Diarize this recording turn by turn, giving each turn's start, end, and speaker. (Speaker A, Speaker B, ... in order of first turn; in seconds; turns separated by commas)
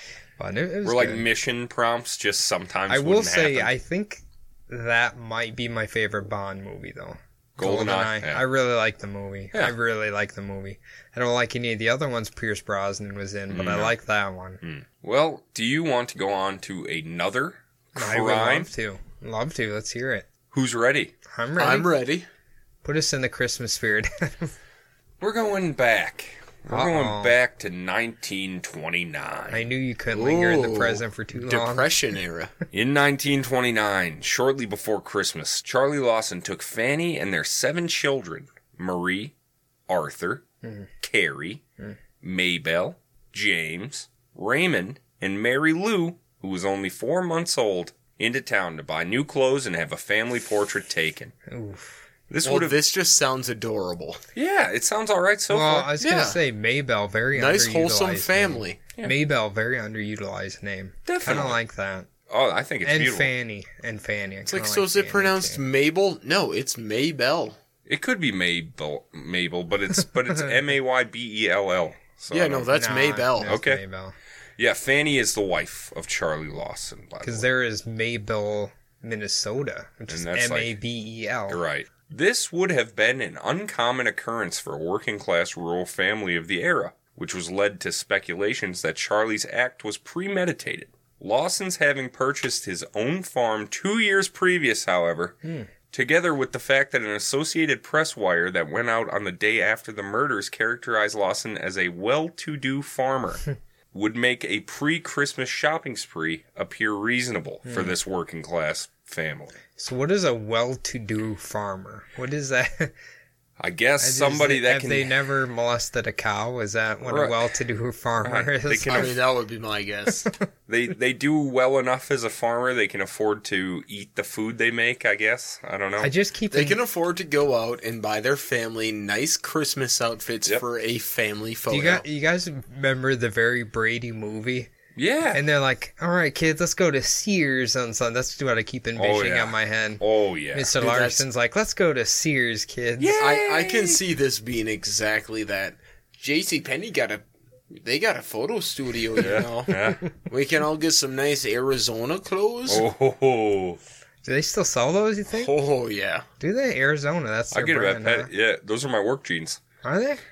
Speaker A: 0.4-1.3, Speaker B: 0.8-3.7, Speaker A: 2.9-14.6, Speaker B: 7.6-8.4, Speaker B: 13.5-13.9, Speaker B: 14.6-18.7, Speaker A: 17.9-20.3, Speaker B: 20.5-21.1, Speaker A: 21.3-21.9, Speaker C: 21.6-22.3, Speaker A: 22.8-24.5, Speaker B: 25.2-29.7, Speaker A: 26.7-27.3, Speaker A: 29.5-31.9, Speaker C: 30.1-32.5, Speaker B: 32.7-39.3, Speaker B: 39.9-40.4, Speaker A: 40.6-40.9, Speaker B: 41.0-41.6, Speaker B: 42.2-51.3, Speaker A: 51.5-52.0, Speaker B: 52.3-52.8, Speaker C: 52.4-54.2, Speaker B: 54.3-55.9, Speaker A: 55.5-62.1, Speaker C: 56.0-56.4, Speaker C: 57.3-58.8, Speaker B: 61.0-61.6, Speaker B: 62.3-63.3, Speaker A: 62.8-65.6, Speaker C: 64.5-67.6, Speaker B: 67.9-72.7, Speaker C: 72.3-73.6, Speaker A: 72.8-74.1, Speaker B: 73.4-73.8, Speaker B: 74.6-77.5, Speaker A: 77.2-81.6, Speaker B: 80.1-80.7, Speaker B: 81.5-95.4, Speaker B: 95.9-109.5, Speaker A: 107.7-107.9, Speaker A: 109.8-112.9, Speaker B: 113.6-115.2, Speaker A: 114.0-119.1, Speaker B: 117.0-117.5, Speaker B: 118.2-119.2, Speaker C: 118.9-120.3, Speaker B: 120.7-126.1, Speaker A: 126.0-126.8, Speaker C: 126.5-132.0, Speaker A: 131.7-134.7, Speaker B: 134.9-135.4, Speaker A: 135.3-143.2, Speaker B: 139.0-140.7, Speaker C: 140.8-141.2, Speaker B: 143.0-144.0, Speaker C: 143.2-152.9, Speaker B: 149.2-150.1, Speaker A: 149.7-150.1, Speaker B: 152.7-153.8, Speaker A: 154.2-155.5, Speaker C: 155.3-156.3, Speaker A: 156.4-158.3, Speaker B: 157.5-159.6, Speaker A: 159.8-160.2